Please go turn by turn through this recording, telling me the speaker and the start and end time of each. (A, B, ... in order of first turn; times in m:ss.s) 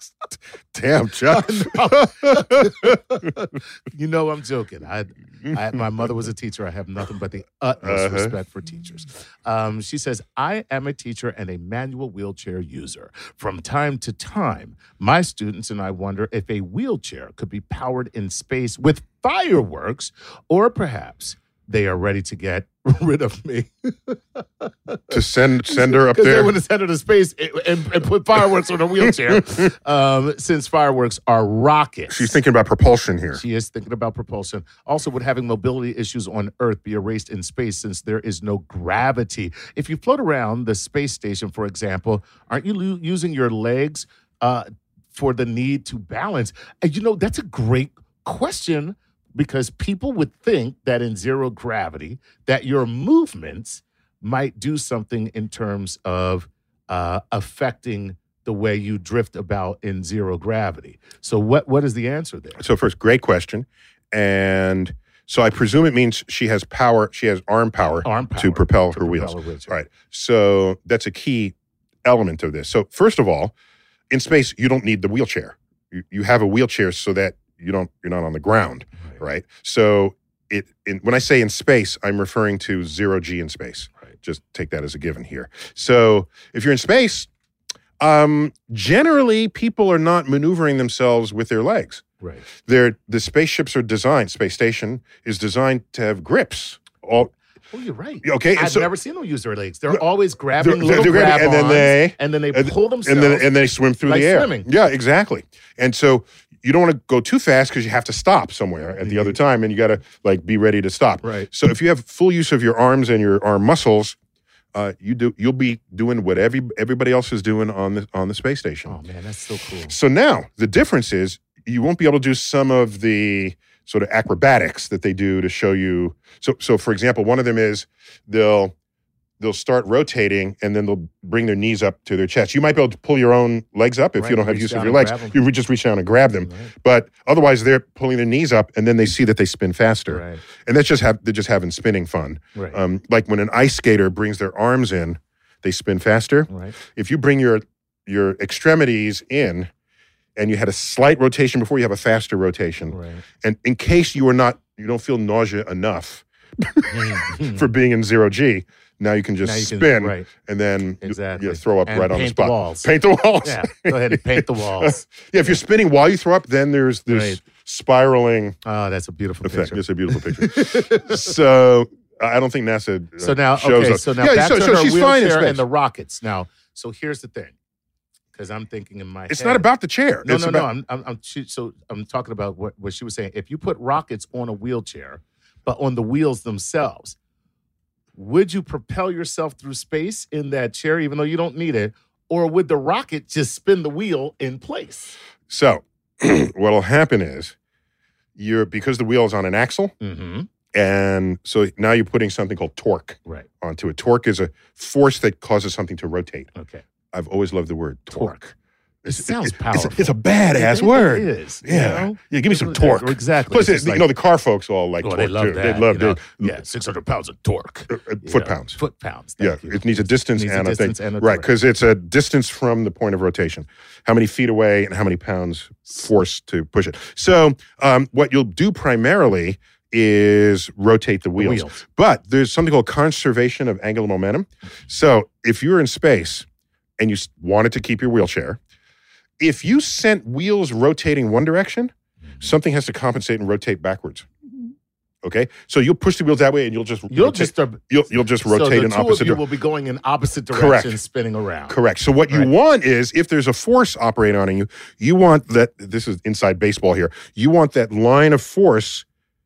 0:00.7-0:03.3 A
0:01.3-0:32.3 B
0:05.5-0:05.8 A
0:07.8-0:08.3 A
0:25.1-0:26.5 A
0:29.0-0:29.6 A
0:32.1-0:33.4 A
0:33.3-1:02.6 B
1:02.6-1:13.5 A
1:08.0-1:09.8 B
1:14.1-1:27.3 A
1:28.0-1:32.0 A
1:32.6-1:37.3 A
1:37.7-1:43.5 B
1:38.2-1:38.9 A
1:40.6-1:54.2 A
1:44.0-1:44.7 B
1:49.0-1:49.4 B
1:51.2-1:51.5 B
1:54.7-1:59.0 A
1:58.8-1:59.9 B
1:59.9-2:08.7 A
2:09.4-2:29.7 A
2:14.2-2:15.4 B
2:16.4-2:16.7 B
2:20.1-2:20.4 B
2:22.5-2:22.8 B
2:26.5-2:26.8 B
2:30.4-2:48.6 A
2:32.9-2:33.2 B
2:36.9-2:37.7 B
2:39.4-2:40.3 B
2:41.0-2:45.6 B
2:47.1-2:47.4 B
2:48.6-2:51.3 B
2:49.4-2:55.6 A
2:53.2-2:57.5 B
2:58.3-2:59.7 B
2:59.3-3:00.7 A
3:00.2-3:07.2 B
3:08.2-3:15.1 B
3:15.5-3:17.5 A
3:18.4-3:19.9 A
3:20.0-3:20.5 B
3:20.7-3:26.5 A
3:26.5-3:26.8 B
3:27.1-3:28.4 A
3:28.1-3:28.5 B
3:29.0-3:34.1 B
3:29.1-3:36.6 A
3:35.0-3:41.5 B
3:37.9-3:38.8 A
3:39.4-3:56.4 A
3:51.4-3:51.8 B
3:57.0-3:58.6 A
3:59.4-4:04.3 A
4:05.2-4:09.4 A
4:07.1-4:11.8 B
4:10.5-4:11.0 A
4:11.7-4:19.0 A